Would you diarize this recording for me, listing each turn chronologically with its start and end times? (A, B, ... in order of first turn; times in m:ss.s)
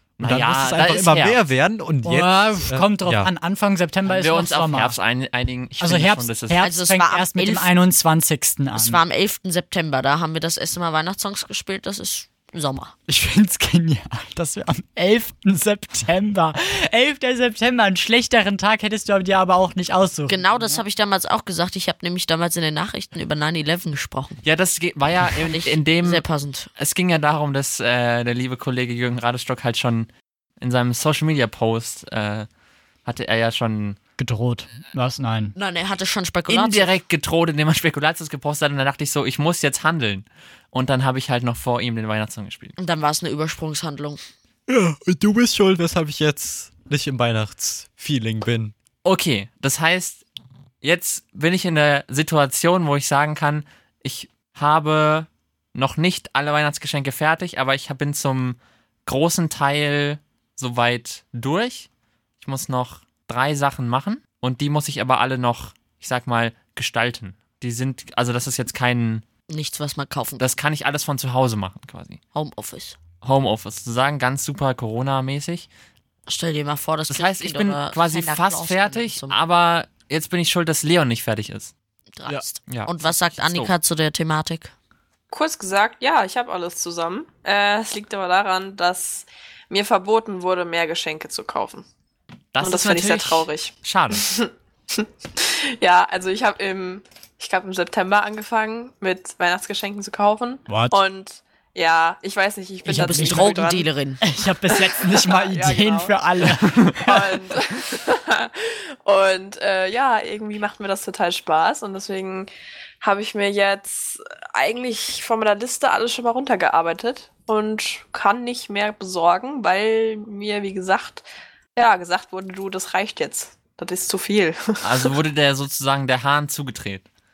0:00.2-0:01.4 A
0:00.2-0:03.3 B
0:02.0-0:05.0 C
0:04.0-0:06.6 A
0:05.8-0:09.0 C
0:06.6-0:07.7 D
0:08.7-0:12.9 D
0:13.1-0:20.8 C
0:20.3-0:24.4 D
0:24.4-0:26.2 A
0:25.4-0:26.7 D
0:26.8-0:30.1 A
0:30.6-0:32.5 A
0:33.0-0:34.0 A
0:34.2-0:35.5 C
0:35.6-0:36.9 D
0:36.5-0:42.7 A
0:42.8-0:44.2 D
0:44.7-0:48.7 B
0:49.0-0:50.2 A
0:50.8-1:01.9 A
1:02.4-1:09.2 A
1:09.5-1:10.5 D
1:10.4-1:12.2 A
1:12.3-1:13.0 D
1:13.2-1:15.7 A
1:16.3-1:19.4 D
1:17.1-1:21.7 A
1:22.1-1:24.7 D
1:22.7-1:23.7 A
1:25.3-1:31.8 E
1:32.5-1:34.2 A
1:32.6-1:43.9 E
1:40.7-1:41.0 C
1:42.8-1:44.2 D
1:42.9-1:43.6 C
1:44.2-1:47.4 C
1:44.7-1:52.5 E
1:53.0-2:01.2 E
2:01.8-2:05.1 E
2:04.8-2:07.0 A